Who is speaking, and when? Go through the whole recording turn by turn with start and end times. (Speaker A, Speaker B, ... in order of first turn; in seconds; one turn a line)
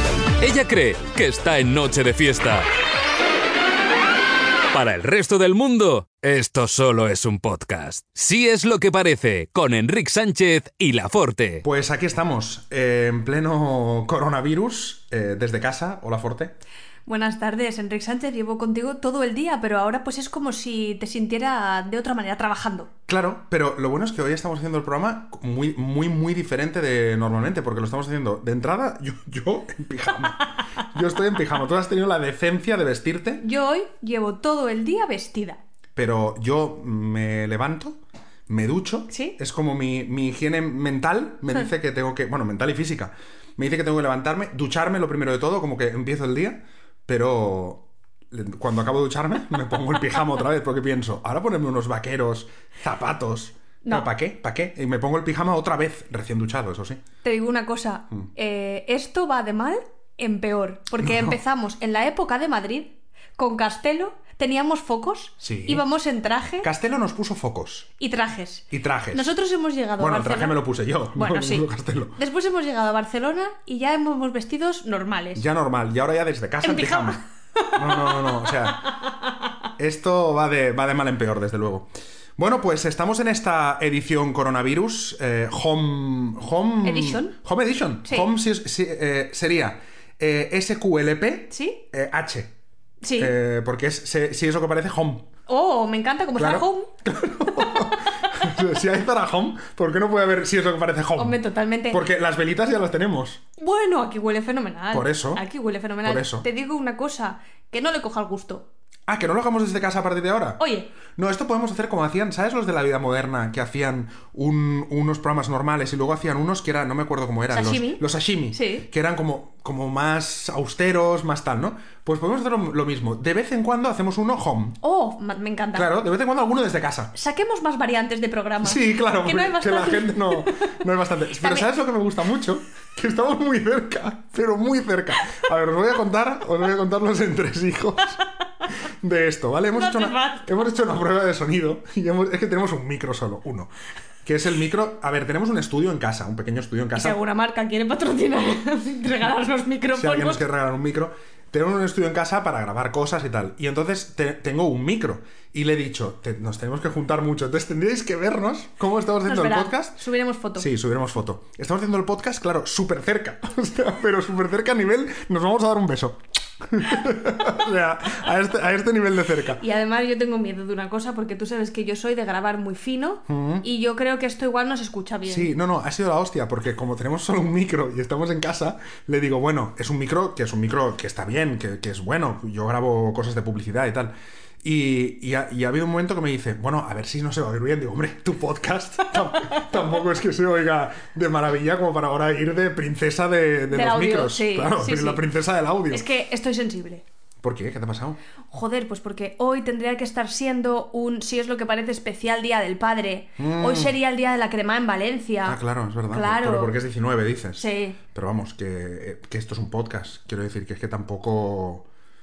Speaker A: 0.4-2.7
Speaker A: 4.7-11.6
Speaker B: 11.6-16.6
Speaker C: 17.1-22.9
Speaker B: 23.1-33.4
Speaker C: 33.4-35.6
Speaker B: 36.0-57.0
Speaker C: 39.1-39.4
Speaker C: 57.2-66.7
Speaker B: 61.0-61.4
Speaker B: 65.4-65.8
Speaker B: 66.6-67.9
Speaker C: 68.0-70.6
Speaker B: 68.7-69.3
Speaker B: 70.0-72.2
Speaker C: 71.2-75.4
Speaker B: 75.4-77.2
Speaker C: 76.6-79.3
Speaker B: 77.7-78.9
Speaker B: 79.8-92.5
Speaker C: 86.8-87.3
Speaker C: 91.5-91.8
Speaker C: 93.0-93.3
Speaker B: 93.2-95.3
Speaker C: 95.5-96.9
Speaker B: 96.4-101.4
Speaker C: 97.6-98.3
Speaker C: 101.2-102.0
Speaker B: 101.9-103.4
Speaker C: 103.6-108.7
Speaker B: 104.9-105.4
Speaker B: 106.0-106.5
Speaker B: 109.1-110.6
Speaker C: 110.6-110.9
Speaker B: 111.2-124.8
Speaker C: 117.5-118.9
Speaker C: 124.8-125.9
Speaker B: 125.7-127.1
Speaker C: 127.1-130.7
Speaker B: 128.6-138.2
Speaker C: 131.4-131.7
Speaker B: 138.8-143.7
Speaker C: 139.7-140.5
Speaker B: 144.2-147.2
Speaker C: 146.9-150.4
Speaker B: 150.0-160.0
Speaker C: 159.2-160.7
Speaker B: 160.6-169.6
Speaker C: 169.6-175.5
Speaker B: 173.3-173.7
Speaker B: 175.3-196.1
Speaker C: 189.3-189.7
Speaker C: 193.7-195.2
Speaker C: 195.9-197.0
Speaker B: 197.4-198.2
Speaker C: 198.5-205.6
Speaker B: 203.4-203.9
Speaker B: 205.5-211.9
Speaker C: 206.1-206.8
Speaker C: 207.6-208.0